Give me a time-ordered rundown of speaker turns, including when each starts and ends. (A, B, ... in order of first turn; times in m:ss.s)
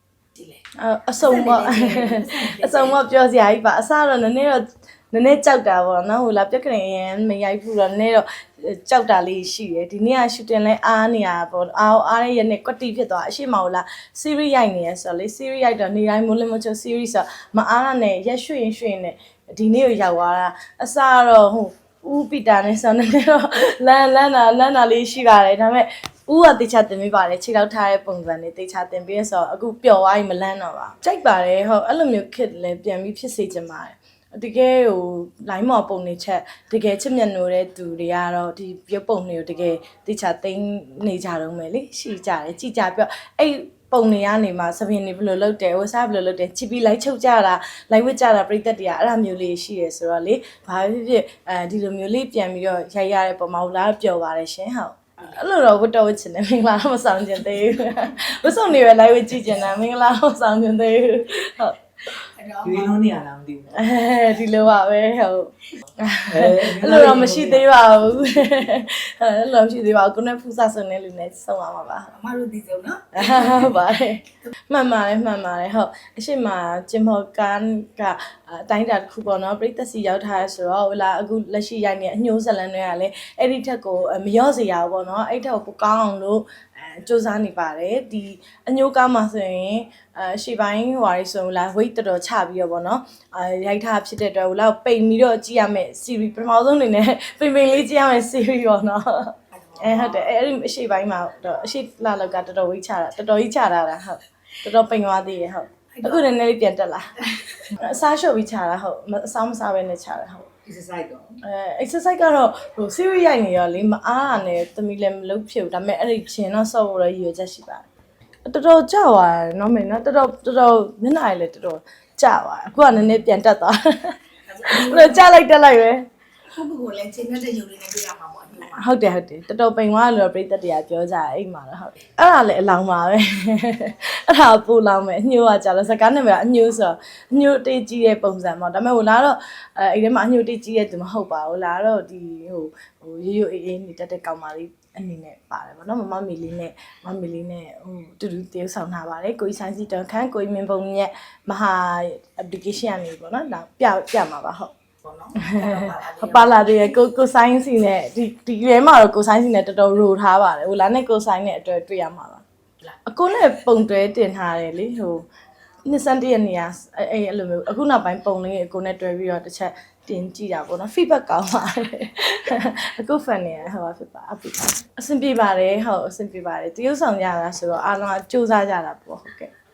0:00.3-0:00.6 A
0:00.7-1:02.3 B
0:01.2-0:03.0 A
1:02.3-1:03.0 A
1:02.6-1:03.8 C
1:03.7-1:12.2 B
1:06.3-1:07.6 C
1:12.2-1:13.5 A
1:13.1-1:50.5 B
1:50.6-1:51.3 C
1:51.4-1:57.8 B
1:58.4-2:06.0 B
2:04.5-2:05.3 A
2:06.5-2:08.8 A
2:08.6-2:34.8 B
2:35.1-2:36.9 A
2:35.3-2:45.3 B
2:45.8-2:59.5 B